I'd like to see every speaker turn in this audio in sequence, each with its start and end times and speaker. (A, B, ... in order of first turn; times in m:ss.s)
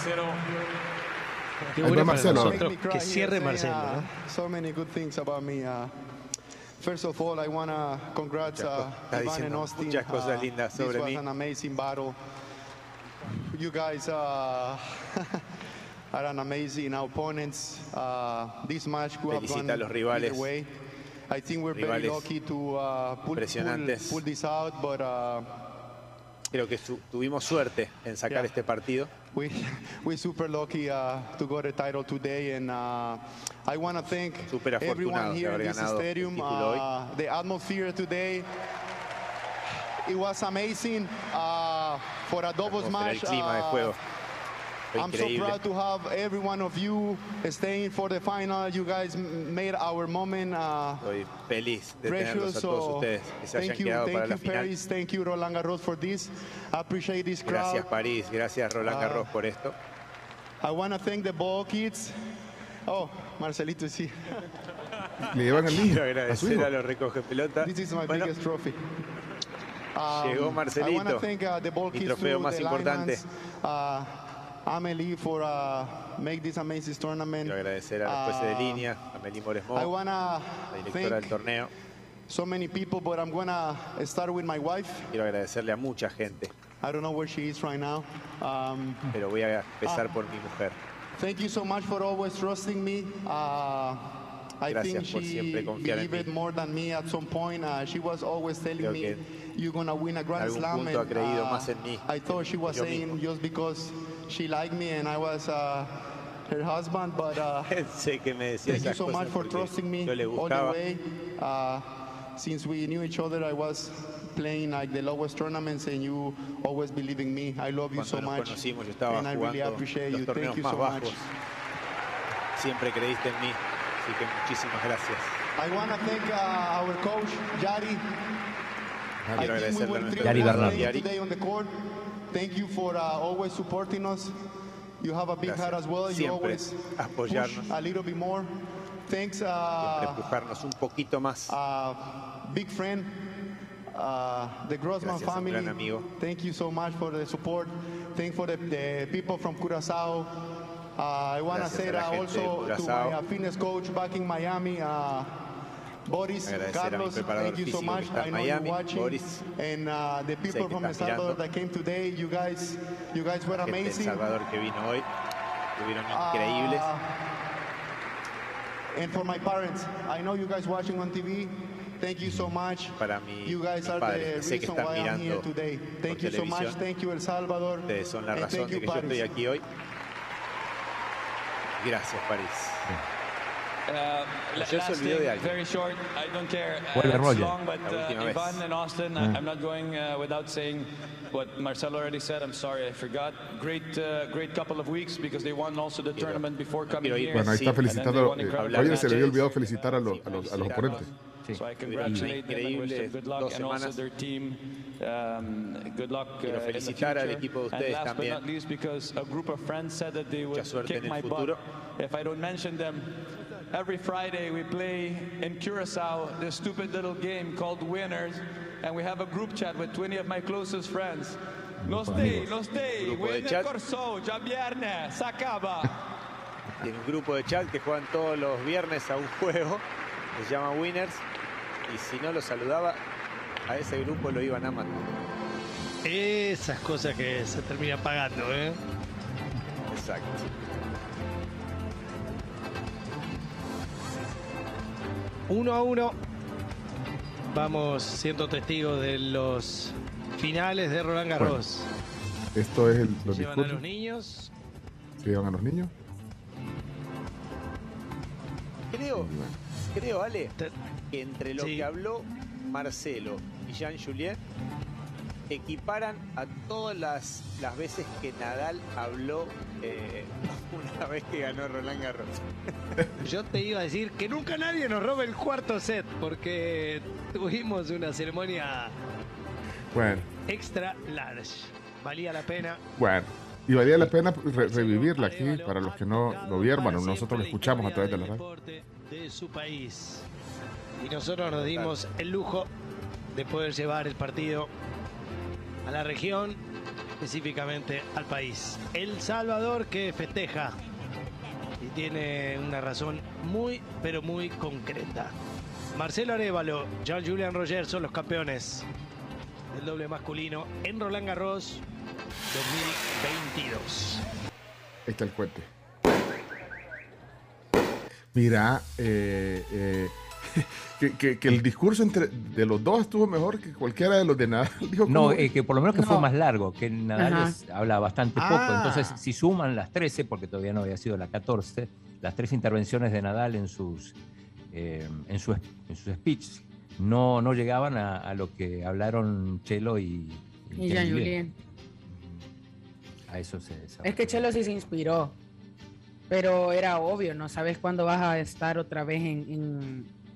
0:01.7-0:04.1 A
0:01.8-0:02.6 B
0:01.9-0:05.9 C
0:06.8-0:12.2 C
0:08.6-0:11.2 D
0:13.3-0:15.4 C
0:16.1-0:25.5 C
0:19.3-0:20.5 D
0:21.7-0:22.3 D
0:23.4-0:24.2 D
0:26.5-0:29.1 D
0:29.3-0:38.5 C
0:34.5-0:36.8 D
0:40.0-0:44.0 C
0:42.6-0:44.0 D
0:44.9-0:45.6 D
0:44.9-0:51.1 C
0:51.0-0:54.7 D
0:52.0-0:57.9 C
0:57.5-0:59.8 D
0:58.8-0:59.3 C
1:00.6-1:02.2 C
1:02.9-1:04.4 C
1:05.2-1:08.3 D
1:05.3-1:06.7 B
1:07.6-1:08.8 C
1:10.0-1:18.9 C
1:10.1-1:11.2 D
1:11.9-1:13.2 D
1:17.4-1:19.9 D
1:19.7-1:21.4 C
1:20.7-1:21.7 D
1:22.3-1:25.1 C
1:25.1-1:26.5 D
1:26.8-1:29.1 C
1:29.1-1:30.8 D
1:31.2-1:46.0 C
1:34.7-1:36.3 D
1:38.8-1:39.2 D
1:40.4-1:43.2 D
1:46.5-1:47.7 C
1:47.7-1:50.8 D
1:48.7-2:01.2 C
1:58.0-2:01.3 D
2:02.6-2:05.4 D
2:05.6-2:08.0 C
2:09.3-2:09.5 B
2:09.4-2:11.1 D
2:09.4-2:11.8 C
2:10.2-2:10.9 E
2:12.3-2:14.4 C
2:15.0-2:18.5 C
2:15.4-2:17.7 D
2:19.1-2:20.2 C
2:19.8-2:21.5 D
2:21.5-2:23.1 C
2:23.9-2:35.5 C
2:25.0-2:26.0 D
2:31.5-2:33.2 D
2:36.1-2:44.2 C
2:36.5-2:39.4 D
2:40.5-2:41.4 D
2:43.6-2:45.1 D
2:45.8-2:46.9 D
2:46.1-2:47.0 C
2:48.9-2:59.3 C
2:53.0-2:55.5 D
2:56.1-2:56.8 D
2:57.9-2:59.6 D
3:01.8-3:02.8 D
3:03.9-3:19.4 F
3:04.5-3:05.6 D
3:06.9-3:07.6 E
3:07.8-3:08.6 D
3:16.2-3:17.9 D
3:17.3-3:21.1 B
3:18.5-3:21.1 D
3:21.5-3:22.3 E
3:21.5-3:45.9 F
3:21.8-3:24.0 D
3:26.4-3:28.4 D
3:30.5-3:31.6 D
3:41.8-3:42.5 E
3:42.7-3:43.7 D
3:46.8-3:49.8 D
3:50.4-3:51.2 D
3:51.9-3:53.0 D
3:53.7-3:55.0 D
3:56.0-3:58.8 A
3:59.9-4:00.5 D
4:05.5-4:06.2 A
4:07.5-4:11.9 A
4:12.6-4:13.8 B
4:13.3-4:14.5 A
4:15.2-4:15.9 B
4:18.9-4:19.3 D
4:19.2-4:19.6 B
4:19.9-4:20.5 D
4:21.1-4:24.4 D
4:21.6-4:21.9 A
4:25.5-4:32.4 D
4:33.2-4:39.0 A
4:39.9-4:40.3 B
4:40.5-4:42.8 A
4:43.0-4:48.4 B
4:44.6-4:50.3 A
4:51.0-4:52.7 A
4:51.5-4:52.0 D
4:53.3-4:54.7 A
4:55.8-4:56.6 A
4:57.2-5:00.8 A
5:01.8-5:05.4 A
5:05.9-5:08.9 A
5:09.7-5:11.8 A
5:12.5-5:14.2 A
5:15.1-5:15.7 B
5:18.3-5:25.5 B
5:25.1-5:34.1 E
5:25.9-5:26.3 G
5:27.2-5:27.6 G
5:28.4-5:29.2 B
5:34.7-5:41.4 E
5:40.8-5:41.5 G
5:42.1-5:42.4 B
5:43.3-5:44.4 E
5:44.0-5:45.4 G
5:46.3-5:50.1 G